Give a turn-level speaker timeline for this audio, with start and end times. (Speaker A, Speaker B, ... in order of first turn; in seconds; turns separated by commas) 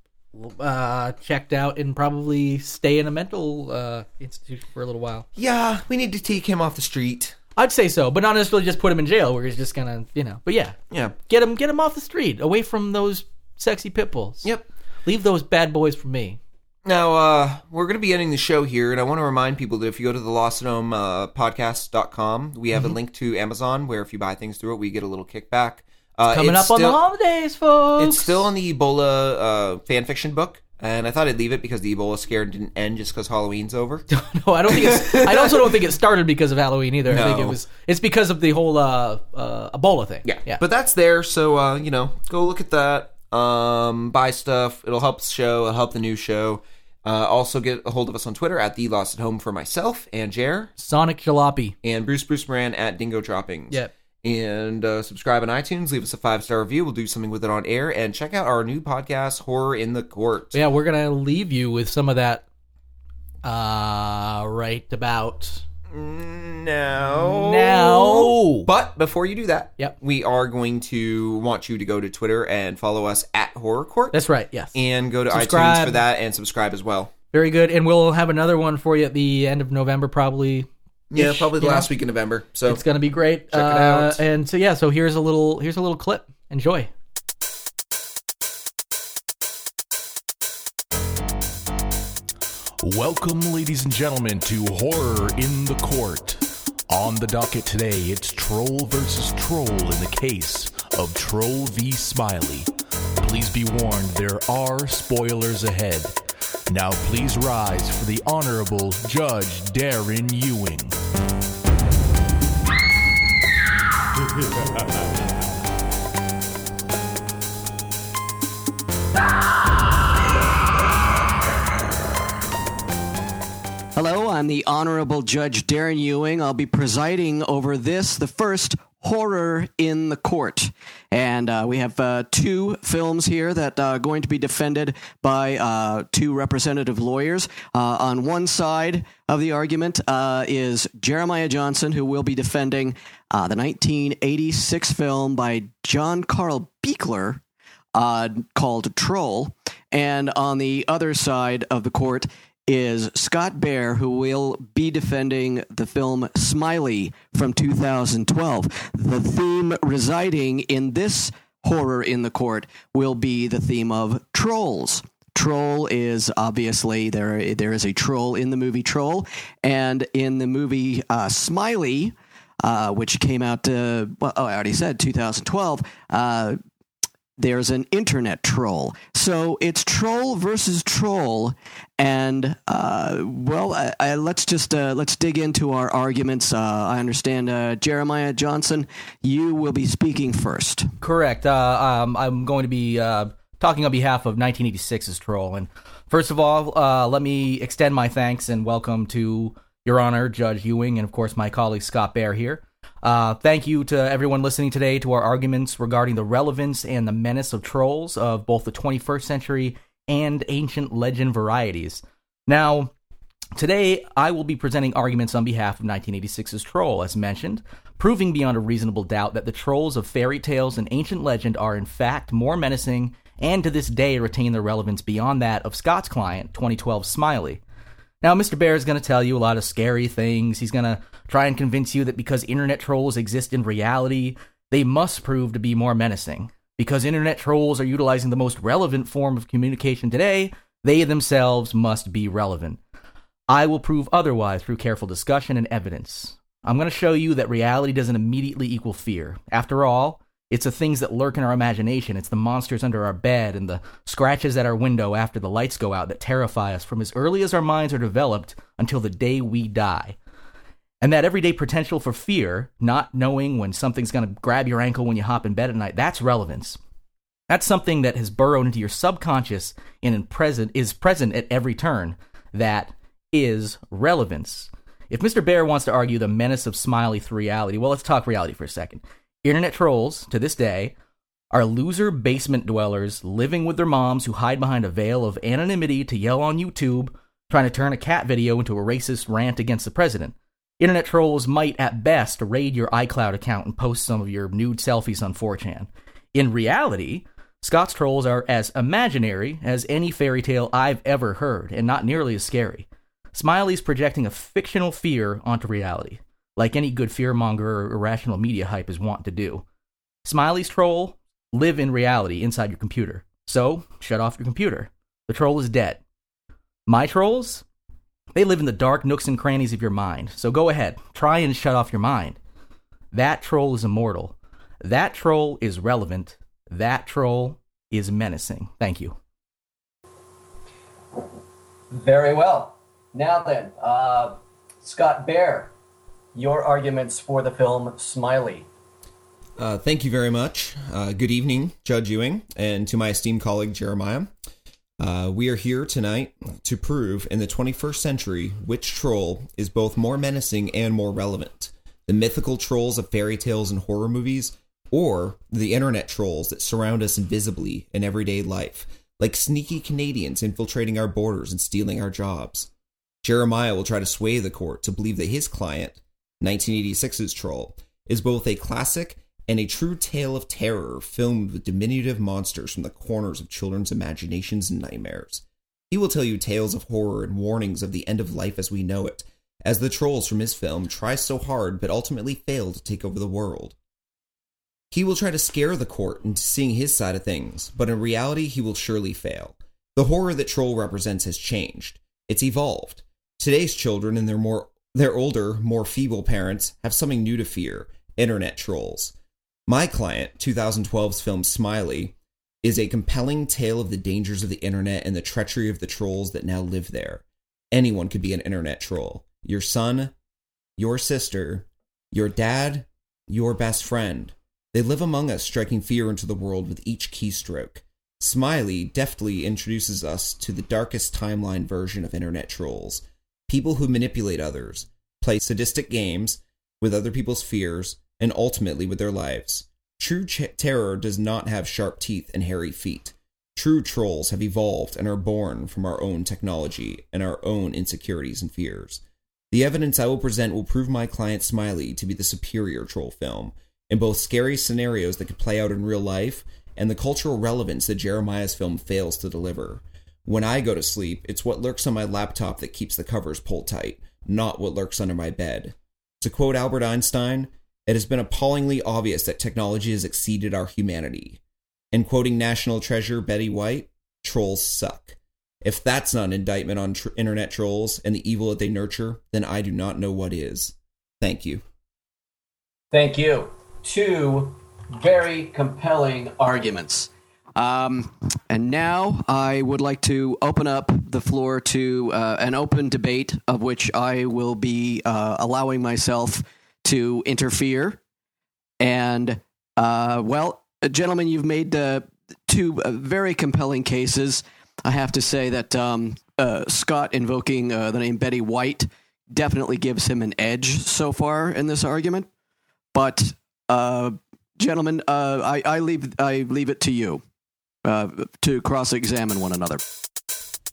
Speaker A: 0.3-5.3, Speaker B: 5.4-7.4, Speaker A: 7.6-10.8, Speaker A: 11.3-14.5, Speaker A: 15.1-16.4, Speaker B: 16.9-27.0, Speaker A: 26.3-28.4, Speaker B: 28.0-34.0, Speaker A: 34.1-40.6, Speaker B: 34.7-35.8, Speaker B: 37.1-37.6, Speaker B: 40.2-50.7, Speaker A: 50.8-51.8, Speaker B: 51.8-60.6, Speaker A: 60.5-62.5, Speaker A: 63.4-65.6, Speaker B: 65.9-74.2, Speaker A: 67.1-68.7, Speaker A: 74.1-74.8, Speaker B: 74.7-77.1, Speaker A: 75.3-76.0, Speaker A: 77.3-81.9, Speaker B: 81.1-82.8, Speaker A: 82.7-86.9, Speaker B: 83.5-84.2, Speaker C: 92.8-102.7, Speaker C: 103.2-106.2, Speaker C: 106.7-111.0, Speaker D: 124.0-147.4, Speaker D: 147.9-176.6, Speaker D: 177.4-190.9, Speaker A: 191.0-212.9, Speaker A: 213.6-227.6, Speaker A: 228.2-242.8, Speaker A: 243.5-260.2, Speaker A: 261.0-266.8, Speaker A: 267.5-280.9, Speaker A: 281.5-309.6, Speaker A: 310.2-316.0, Speaker A: 316.9-317.6, Speaker A: 318.3-322.4, Speaker A: 323.1-329.2, Speaker D: 331.9-335.7, Speaker D: 336.4-338.7, Speaker B: 339.6-344.3, Speaker B: 345.0-362.7, Speaker B: 363.2-383.8, Speaker B: 384.9-399.1, Speaker B: 399.7-410.1, Speaker B: 410.8-461.4, Speaker B: 461.9-471.6, Speaker D: 472.9-488.0, Speaker D: 488.8-502.3, Speaker D: 502.9-507.2, Speaker D: 507.9-509.8